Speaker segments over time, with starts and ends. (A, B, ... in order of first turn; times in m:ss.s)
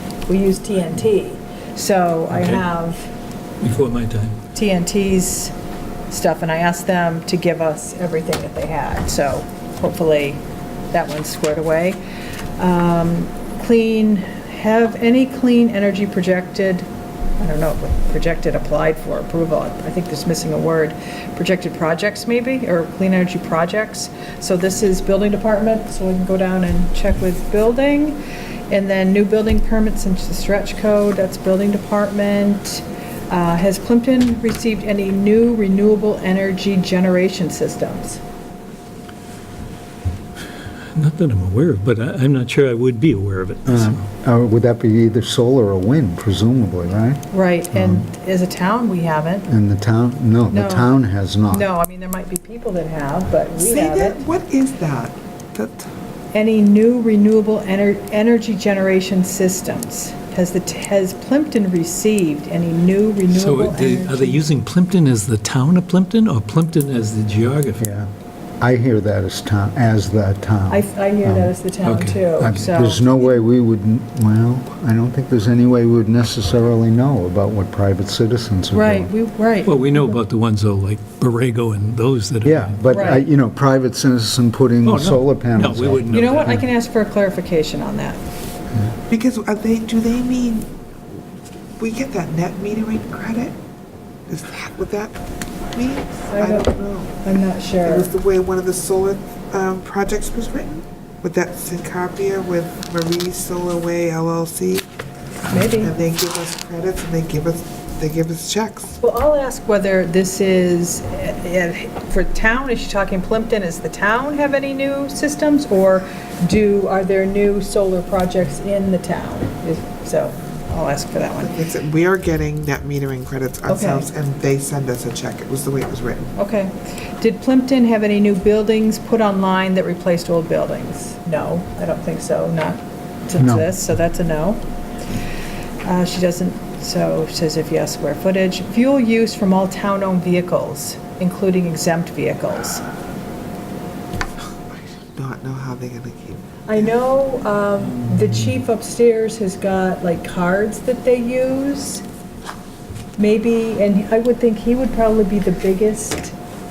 0:00.3-0:03.1 A
0:02.3-0:02.6 B
0:03.6-0:04.4 B
0:04.5-0:05.5 A
0:06.1-0:12.0 A
0:12.6-0:16.9 A
0:17.4-0:38.2 A
0:40.9-0:44.1 B
0:43.7-0:48.0 C
0:47.3-0:49.5 A
0:49.5-0:51.7 C
0:50.5-0:50.9 A
0:51.5-0:54.2 A
0:53.5-0:55.9 D
0:56.3-1:04.4 A
1:03.3-1:07.9 B
1:07.8-1:08.1 C
1:08.6-1:11.6 C
1:10.7-1:13.4 A
1:11.8-1:12.7 B
1:12.4-1:19.1 C
1:18.7-1:19.9 A
1:19.6-1:22.9 B
1:22.4-1:26.2 C
1:22.9-1:23.3 A
1:24.8-1:26.7 B
1:26.1-1:28.2 A
1:29.1-1:30.7 D
1:31.8-1:33.6 D
1:34.3-1:35.2 D
1:35.7-1:44.9 D
1:36.3-1:38.1 A
1:45.5-1:45.9 A
1:45.6-1:49.0 D
1:49.0-2:01.6 A
2:01.4-2:06.3 D
2:03.7-2:04.1 A
2:06.4-2:14.6 A
2:13.4-2:13.7 C
2:15.8-2:22.9 A
2:24.7-2:26.9 D
2:26.7-2:32.0 A
2:28.0-2:28.3 B
2:33.2-2:36.4 A